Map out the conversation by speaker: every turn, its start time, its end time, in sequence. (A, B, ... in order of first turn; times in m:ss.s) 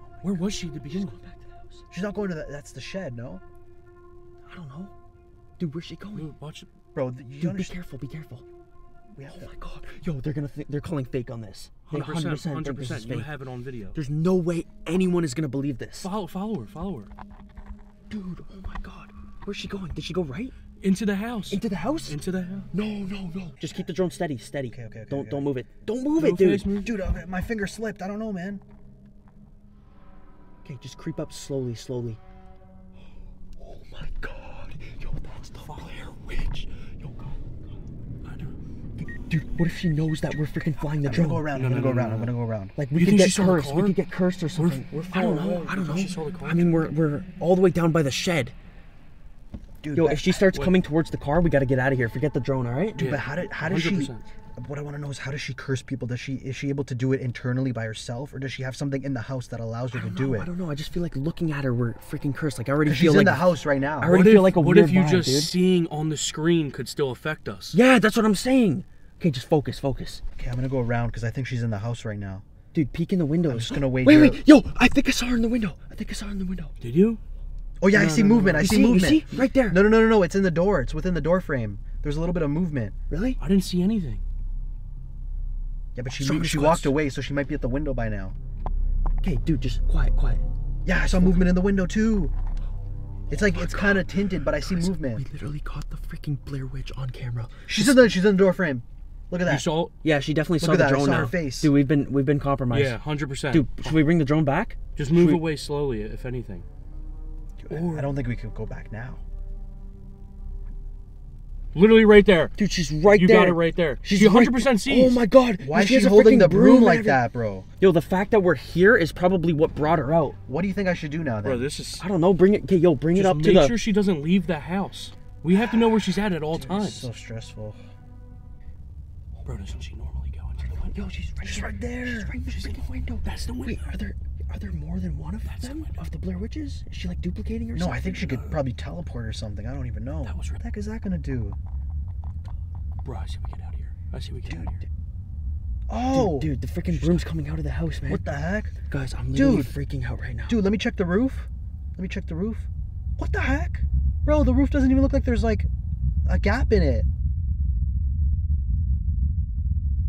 0:00.2-0:01.2 A
0:00.5-0:01.8 B
0:01.9-0:03.4 C
0:04.4-0:04.9 B
0:05.6-0:06.3 B
0:06.1-0:06.7 A
0:06.9-0:07.8 C
0:07.4-0:08.4 B
0:09.1-0:09.5 C
0:09.2-0:13.3 B
0:11.9-0:14.0 A
0:13.9-0:16.1 B
0:16.0-0:17.1 A
0:18.1-0:20.5 B
0:20.8-0:22.7 A
0:21.5-0:22.2 B
0:22.7-0:26.8 B
0:24.7-0:25.5 C
0:26.2-0:26.9 A
0:26.8-0:28.6 C
0:30.6-0:32.2 B
0:33.6-0:37.4 B
0:38.2-0:38.6 A
0:39.0-0:41.5 B
0:41.0-0:42.8 C
0:41.5-0:42.3 A
0:42.8-0:48.5 B
0:42.9-0:44.0 A
0:44.6-0:46.9 A
0:49.8-0:50.4 C
0:49.9-0:53.0 B
0:53.0-0:54.2 A
0:53.0-1:00.5 C
0:59.9-1:05.5 B
1:02.8-1:04.2 C
1:04.1-1:07.8 A
1:07.7-1:10.2 B
1:10.4-1:12.4 C
1:12.7-1:16.7 B
1:13.5-1:14.4 C
1:16.8-1:17.2 A
1:17.8-1:22.9 C
1:17.9-1:19.1 A
1:18.6-1:19.9 B
1:23.1-1:23.4 B
1:23.4-1:24.2 A
1:25.9-1:28.4 C
1:26.2-1:27.0 B
1:29.2-1:30.4 B
1:30.8-1:32.3 C
1:31.0-1:31.5 B
1:33.3-1:35.2 C
1:33.3-1:38.1 B
1:37.7-1:39.7 C
1:39.4-1:39.9 A
1:40.0-1:43.0 B
1:40.6-1:41.7 C
1:42.7-1:44.0 A
1:43.5-1:45.4 B
1:45.0-1:46.6 A
1:47.6-1:49.2 C
1:47.7-1:48.1 A
1:51.7-1:52.5 A
1:52.6-1:57.2 B
1:53.1-1:55.2 A
1:55.6-1:57.7 C
1:57.8-2:00.4 B
2:00.5-2:01.7 C
2:01.4-2:02.0 A
2:02.0-2:03.8 B
2:03.1-2:07.1 A
2:06.6-2:07.8 C
2:09.4-2:11.0 A
2:10.7-2:18.5 B
2:11.4-2:12.4 C
2:12.5-2:13.9 A
2:15.4-2:16.0 A
2:17.7-2:21.6 C
2:20.2-2:20.6 A
2:23.0-2:24.8 A
2:24.5-2:24.9 B
2:25.9-2:26.5 C
2:26.1-2:28.2 B
2:28.1-2:28.8 C
2:28.9-2:30.6 B
2:29.3-2:29.8 C
2:30.5-2:35.7 C
2:36.3-2:37.1 C